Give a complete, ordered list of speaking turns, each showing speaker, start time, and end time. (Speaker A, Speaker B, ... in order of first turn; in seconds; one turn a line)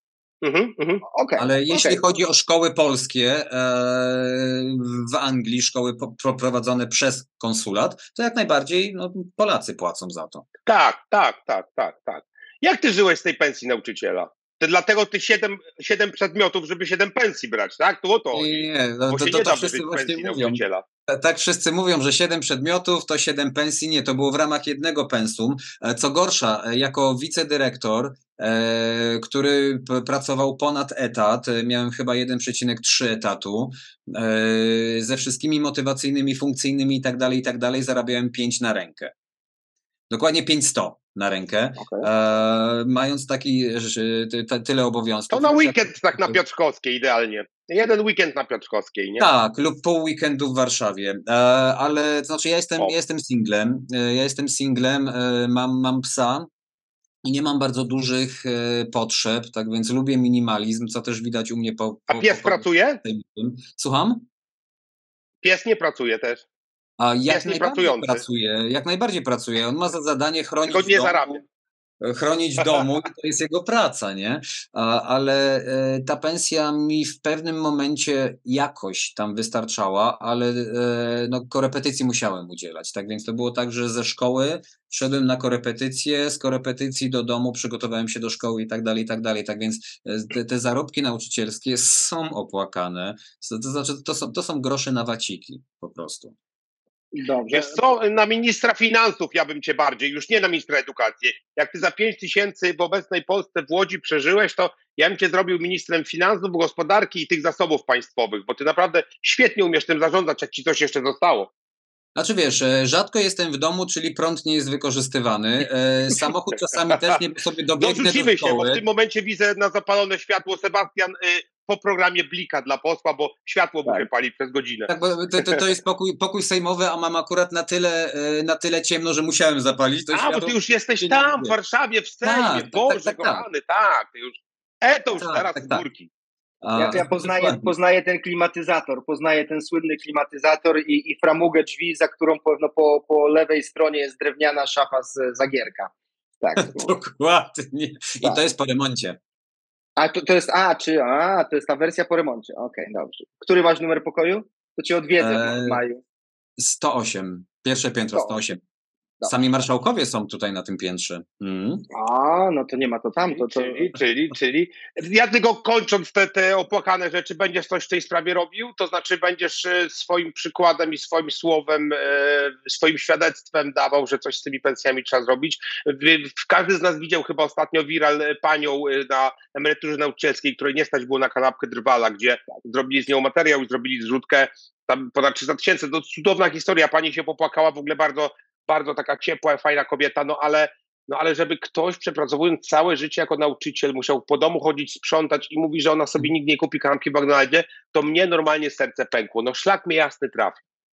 Speaker A: 0.4-1.0
Speaker B: 1.1-1.9
Speaker C: 1.4-10.4
Speaker A: 10.7-20.8
Speaker C: 18.3-39.1
Speaker C: 40.1-46.4
Speaker B: 41.8-42.1
Speaker A: 45.3-49.2
Speaker C: 49.2-56.5
Speaker C: 57.2-64.3
Speaker A: 62.1-63.0
Speaker A: 65.4-66.4
Speaker C: 67.0-71.2
Speaker A: 67.3-68.2
Speaker A: 70.7-71.4
Speaker C: 72.0-96.3
Speaker B: 97.1-97.9
Speaker A: 97.5-111.5
Speaker C: 112.2-118.8
Speaker A: 117.8-125.6
Speaker C: 124.9-131.5
Speaker A: 130.1-136.1
Speaker C: 132.2-133.4
Speaker C: 135.2-135.8
Speaker C: 136.6-137.7
Speaker B: 136.7-146.9
Speaker C: 146.5-149.2
Speaker B: 150.0-156.0
Speaker C: 155.2-155.8
Speaker C: 156.6-158.6
Speaker B: 159.2-159.6
Speaker C: 159.2-161.8
Speaker B: 161.9-163.8
Speaker A: 163.2-200.6